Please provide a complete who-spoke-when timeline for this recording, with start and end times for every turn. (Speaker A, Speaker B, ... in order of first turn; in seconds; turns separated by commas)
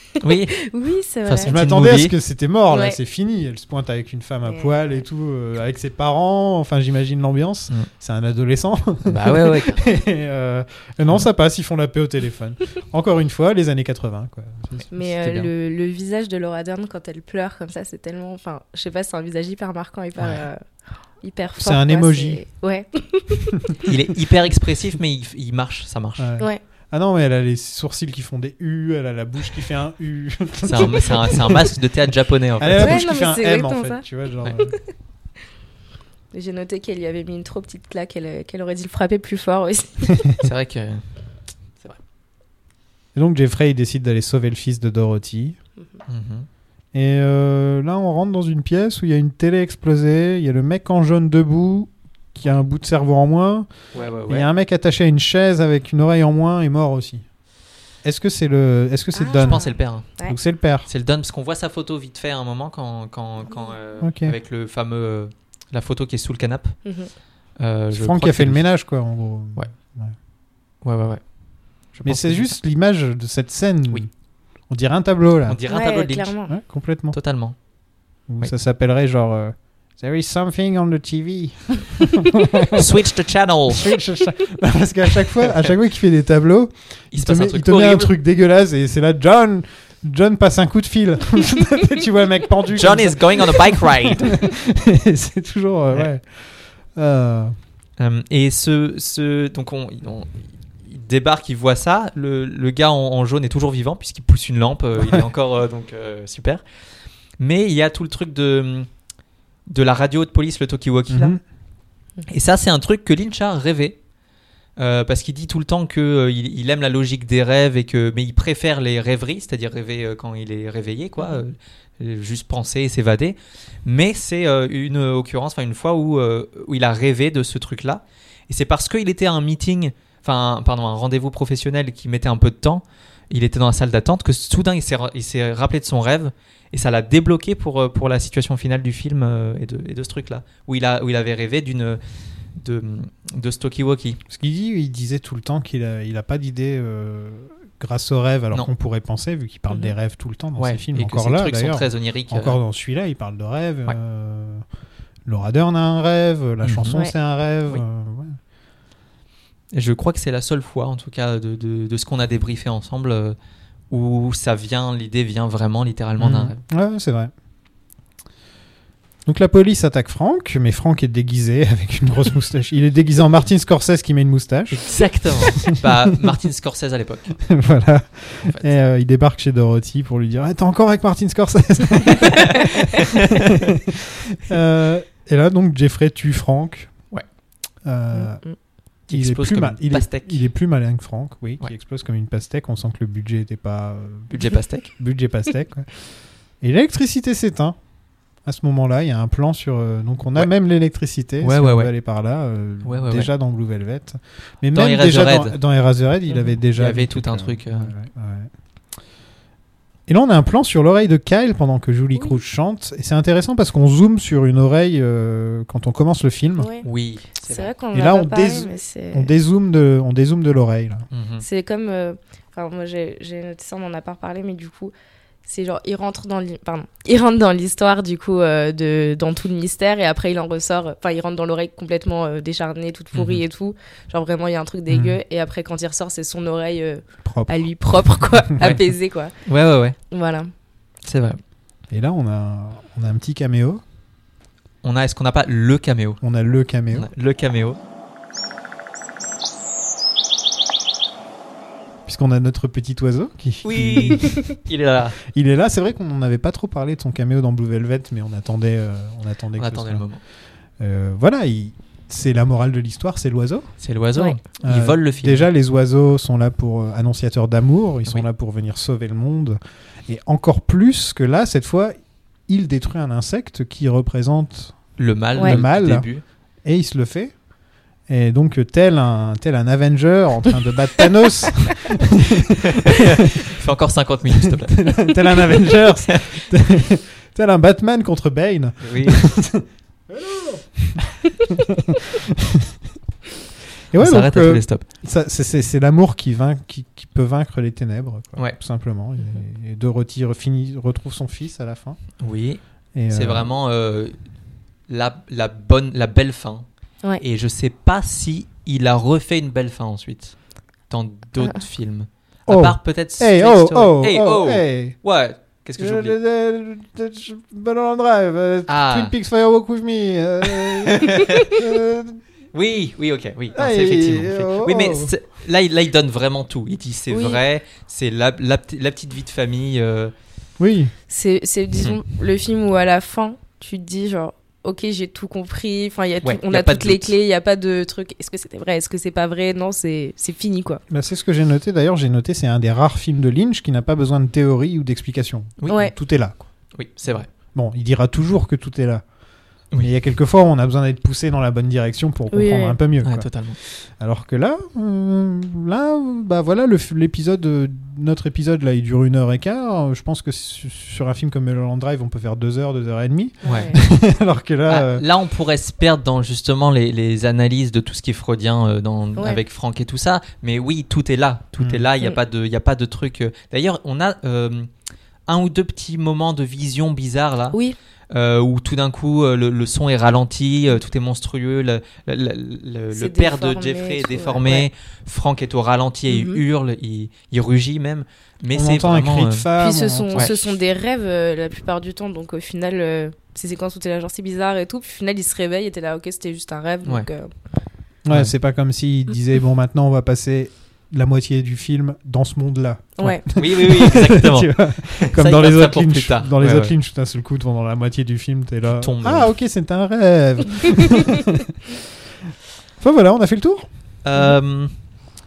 Speaker A: 0.2-0.6, Speaker B: 0.5-1.6, Speaker A: 1.3-2.1, Speaker C: 1.5-15.0, Speaker B: 2.7-3.0, Speaker B: 4.5-5.0, Speaker A: 9.1-9.8, Speaker A: 14.7-15.5, Speaker B: 14.9-20.6, Speaker A: 20.2-20.4, Speaker B: 21.2-23.6, Speaker C: 21.6-22.4, Speaker A: 23.9-26.3, Speaker C: 26.2-31.7, Speaker A: 30.6-33.0, Speaker C: 32.6-34.8, Speaker B: 32.8-34.1, Speaker B: 36.3-40.4, Speaker A: 40.4-41.0, Speaker C: 43.1-45.6, Speaker A: 46.1-46.5, Speaker C: 46.9-53.7, Speaker A: 53.9-54.5, Speaker C: 54.3-57.2, Speaker C: 58.0-59.6, Speaker B: 59.1-60.4, Speaker A: 59.4-60.1, Speaker C: 60.2-60.9, Speaker A: 60.9-66.8, Speaker C: 64.0-64.4, Speaker B: 66.8-67.1, Speaker A: 67.6-68.7, Speaker C: 67.9-70.1, Speaker A: 70.8-71.2, Speaker A: 71.9-72.6, Speaker C: 72.0-74.1, Speaker C: 74.7-75.6, Speaker A: 75.5-76.4, Speaker B: 75.7-76.5, Speaker C: 76.5-77.2, Speaker A: 77.1-77.6, Speaker C: 78.3-82.8, Speaker A: 82.7-83.9, Speaker C: 83.7-97.6, Speaker A: 87.1-88.1, Speaker A: 92.8-94.3, Speaker A: 98.0-106.6, Speaker A: 107.4-108.9, Speaker A: 109.7-111.4, Speaker C: 111.1-111.4, Speaker A: 112.3-114.0, Speaker A: 114.8-142.0, Speaker A: 142.6-144.2, Speaker C: 144.3-154.7, Speaker B: 149.7-149.9, Speaker A: 150.6-152.6, Speaker C: 155.3-158.4, Speaker A: 156.6-156.9, Speaker A: 159.7-163.4, Speaker A: 163.9-166.6, Speaker C: 166.2-167.3, Speaker C: 169.3-175.7, Speaker A: 174.7-177.4, Speaker C: 177.5-186.9, Speaker A: 178.5-178.8, Speaker A: 182.2-183.1, Speaker C: 187.8-188.4, Speaker B: 188.1-188.6, Speaker A: 189.1-190.4, Speaker C: 189.1-194.4, Speaker A: 194.3-194.9, Speaker C: 195.0-195.9, Speaker C: 196.6-197.8, Speaker C: 198.4-208.5, Speaker A: 201.4-201.9, Speaker A: 202.8-203.3, Speaker A: 204.7-205.6, Speaker A: 206.8-207.9, Speaker C: 210.1-216.7, Speaker B: 216.6-216.9, Speaker A: 216.8-217.7, Speaker B: 217.4-219.3, Speaker C: 217.9-221.1, Speaker A: 221.1-221.4, Speaker B: 221.4-224.9, Speaker B: 225.4-239.3, Speaker A: 233.1-233.4, Speaker C: 234.9-235.2, Speaker C: 237.2-238.7, Speaker A: 239.5-240.0, Speaker B: 240.1-240.5, Speaker A: 241.0-241.4, Speaker C: 241.9-243.8, Speaker A: 244.8-246.2, Speaker C: 246.2-247.1, Speaker A: 246.9-247.8, Speaker C: 252.1-254.3, Speaker A: 253.6-255.2, Speaker C: 255.3-260.1, Speaker A: 259.6-260.2, Speaker C: 260.8-263.7, Speaker A: 263.8-265.5, Speaker C: 264.6-271.9, Speaker C: 272.5-276.1, Speaker A: 275.0-276.2, Speaker C: 276.6-277.4, Speaker C: 278.1-283.1, Speaker A: 282.8-286.2, Speaker C: 284.5-292.7, Speaker A: 288.8-289.3, Speaker C: 293.9-302.0, Speaker A: 294.0-294.9, Speaker A: 302.2-304.2, Speaker C: 302.9-303.5, Speaker A: 304.9-306.7, Speaker A: 307.2-310.4, Speaker A: 310.9-316.2, Speaker C: 312.5-315.0, Speaker C: 315.8-322.2, Speaker A: 318.7-319.1, Speaker A: 321.0-321.5, Speaker A: 322.5-330.1, Speaker C: 323.5-325.1, Speaker B: 327.1-327.4, Speaker C: 330.6-330.9, Speaker B: 331.1-340.8, Speaker A: 336.2-337.1, Speaker C: 340.9-346.4, Speaker A: 345.6-345.9, Speaker B: 345.7-345.9, Speaker A: 346.7-347.3, Speaker C: 347.5-349.0, Speaker C: 349.8-365.1, Speaker B: 352.3-352.8, Speaker A: 353.0-353.6, Speaker B: 363.4-363.8, Speaker A: 363.4-363.8, Speaker A: 364.7-374.7, Speaker C: 371.6-371.8, Speaker A: 375.3-377.6, Speaker A: 378.1-389.5, Speaker B: 382.9-384.7, Speaker B: 386.1-386.4, Speaker C: 388.5-390.5, Speaker B: 389.6-397.3, Speaker C: 398.1-411.5, Speaker B: 403.0-403.2, Speaker A: 403.4-406.7, Speaker A: 408.7-409.3, Speaker C: 412.8-413.7, Speaker A: 414.0-414.7